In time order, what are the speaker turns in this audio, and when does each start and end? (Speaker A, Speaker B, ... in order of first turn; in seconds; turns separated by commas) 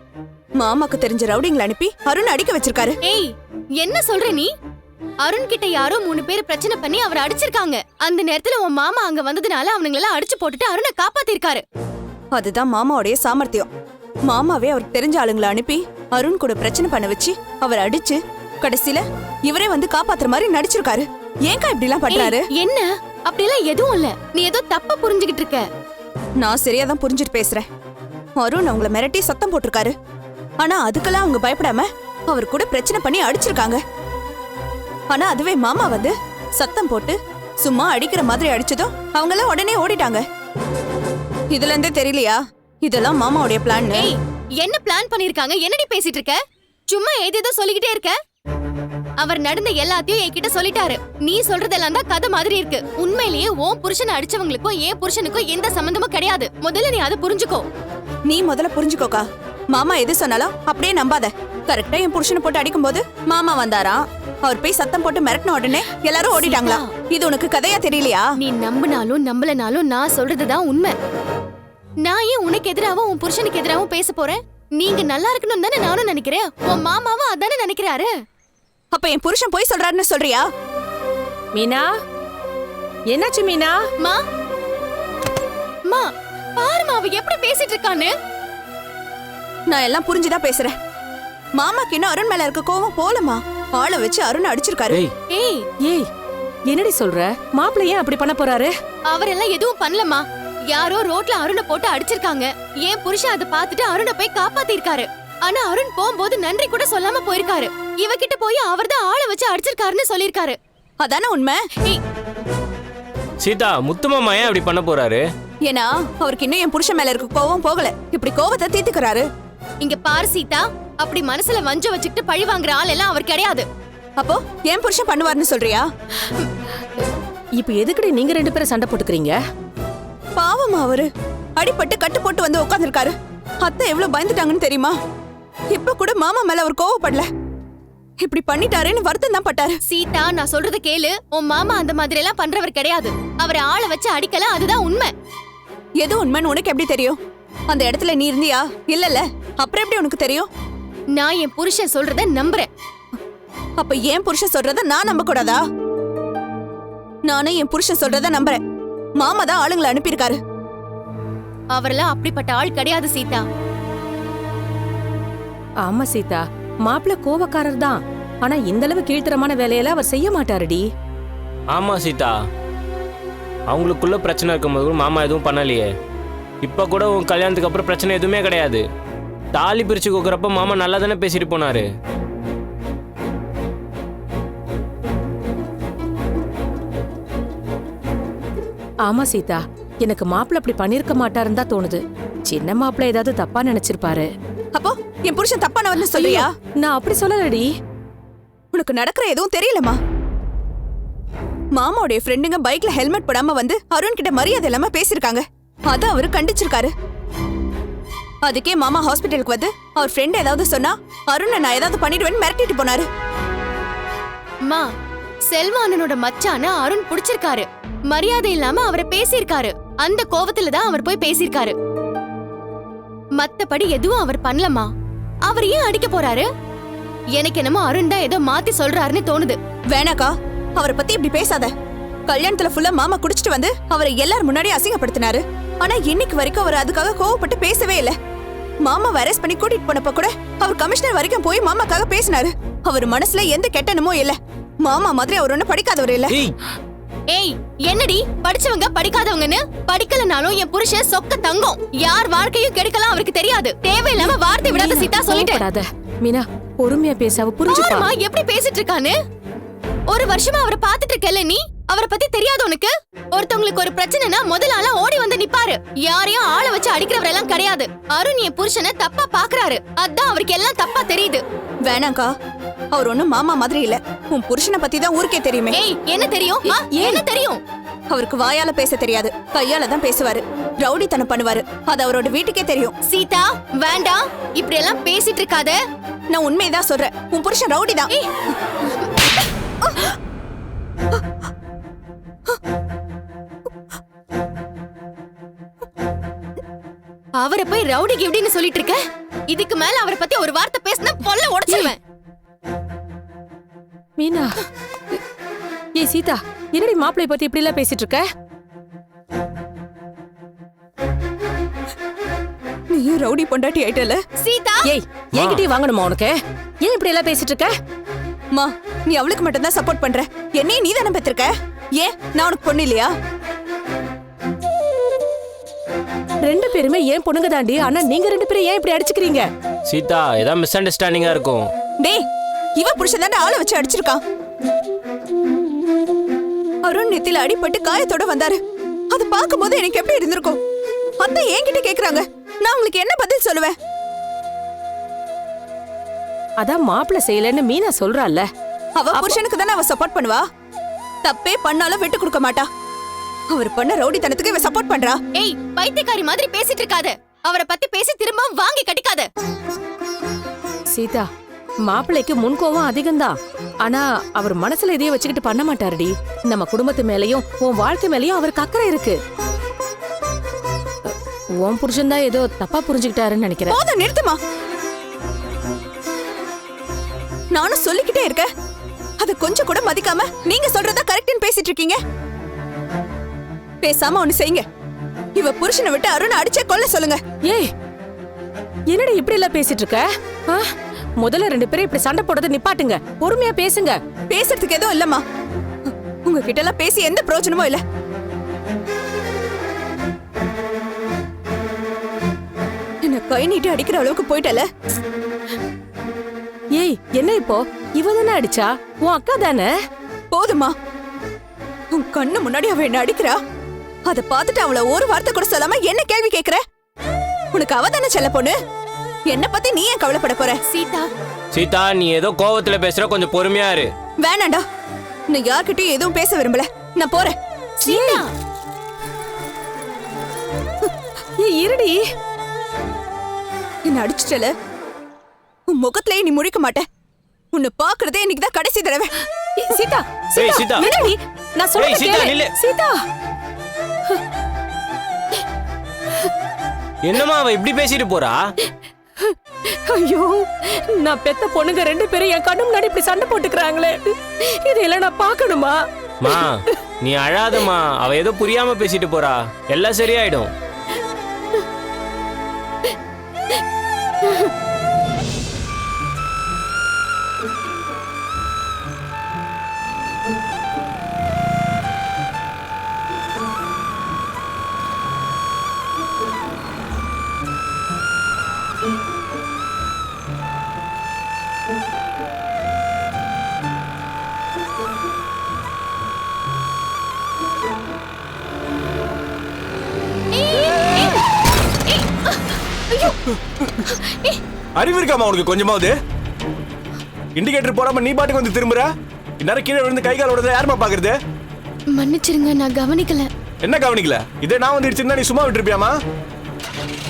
Speaker A: 0.6-3.0, Speaker B: 3.0-4.5, Speaker B: 5.2-11.6, Speaker A: 12.3-13.7, Speaker A: 14.3-22.4, Speaker B: 22.1-25.6, Speaker A: 26.4-27.7, Speaker A: 28.4-29.9, Speaker A: 30.6-33.8, Speaker A: 35.1-40.2, Speaker A: 41.5-44.1, Speaker B: 43.9-46.4, Speaker B: 46.9-48.2, Speaker B: 49.2-57.7, Speaker A: 58.3-68.3, Speaker B: 66.4-66.9, Speaker B: 68.4-71.0, Speaker B: 72.0-78.1, Speaker A: 78.9-80.4, Speaker C: 81.5-81.9, Speaker C: 83.1-83.8, Speaker B: 86.6-88.1, Speaker A: 89.7-90.8, Speaker A: 91.6-95.0, Speaker B: 95.3-95.7, Speaker C: 96.7-98.7, Speaker B: 99.1-110.6, Speaker A: 111.0-111.6, Speaker D: 113.4-115.2, Speaker A: 115.7-119.2, Speaker B: 119.8-123.7, Speaker A: 124.2-125.8, Speaker C: 127.6-129.4, Speaker A: 130.4-134.9, Speaker A: 135.7-137.3, Speaker A: 138.2-139.8, Speaker B: 139.9-145.1, Speaker A: 146.0-147.2, Speaker A: 147.7-150.5, Speaker B: 151.2-152.7, Speaker A: 153.8-155.6, Speaker A: 157.3-158.6, Speaker A: 159.2-160.4, Speaker B: 161.8-163.4, Speaker C: 165.8-170.8, Speaker D: 171.7-172.3, Speaker D: 173.7-175.9, Speaker D: 176.6-178.8, Speaker D: 179.5-181.9, Speaker C: 189.1-194.3, Speaker A: 194.8-196.5, Speaker C: 196.1-197.7, Speaker A: 198.7-200.0, Speaker A: 201.8-206.9, Speaker A: 208.4-213.1, Speaker B: 215.5-221.8, Speaker B: 223.4-224.9, Speaker B: 225.5-226.5, Speaker B: 227.4-229.6, Speaker A: 229.9-231.7, Speaker A: 232.3-238.2, Speaker A: 238.8-246.4, Speaker D: 246.3-246.6, Speaker B: 247.3-255.6, Speaker C: 254.2-258.1, Speaker B: 257.7-259.2, Speaker B: 260.1-271.4, Speaker A: 271.9-272.3, Speaker A: 272.9-275.8, Speaker B: 275.7-277.6, Speaker C: 276.7-277.2, Speaker A: 278.1-282.9, Speaker B: 283.1-285.8, Speaker A: 286.3-288.1, Speaker A: 289.8-290.1, Speaker B: 297.4-299.0, Speaker B: 299.5-302.0, Speaker C: 301.7-301.9, Speaker C: 304.2-304.5, Speaker C: 306.0-308.3, Speaker A: 312.9-314.2, Speaker B: 314.4-314.9, Speaker C: 314.9-317.7, Speaker D: 315.4-315.6, Speaker A: 318.5-323.1, Speaker C: 326.4-329.4, Speaker D: 329.9-331.7, Speaker A: 332.8-334.2, Speaker A: 336.9-338.6, Speaker A: 339.1-340.6, Speaker A: 341.2-343.7, Speaker C: 346.6-348.5, Speaker A: 349.0-350.4, Speaker A: 351.2-352.7, Speaker A: 353.5-355.2, Speaker B: 355.4-359.3, Speaker C: 360.9-361.3, Speaker C: 361.9-369.2, Speaker C: 371.1-373.8, Speaker A: 373.7-374.4, Speaker A: 377.5-378.5, Speaker A: 379.2-382.0, Speaker A: 383.8-384.6, Speaker A: 385.4-387.2, Speaker C: 388.9-394.0, Speaker A: 394.3-395.2, Speaker A: 395.9-397.8, Speaker A: 403.0-404.7, Speaker C: 406.8-409.7, Speaker A: 410.3-410.7, Speaker A: 411.9-413.4, Speaker A: 414.1-416.6, Speaker A: 417.5-418.6, Speaker A: 419.3-420.6, Speaker B: 420.7-421.1, Speaker D: 421.5-423.9, Speaker A: 424.2-424.6, Speaker A: 425.3-427.4, Speaker B: 427.8-428.3, Speaker C: 427.9-428.2, Speaker C: 431.4-432.0, Speaker A: 433.9-434.5, Speaker A: 435.7-436.8, Speaker A: 437.5-439.1, Speaker C: 439.6-443.0, Speaker D: 440.4-440.9, Speaker D: 441.8-442.5, Speaker D: 447.0-448.5, Speaker C: 449.3-455.8, Speaker D: 456.2-460.5, Speaker B: 490.3-491.2, Speaker B: 491.9-493.2, Speaker B: 493.8-494.4, Speaker E: 494.8-495.9, Speaker E: 497.4-501.2, Speaker B: 501.9-503.3, Speaker E: 503.6-506.0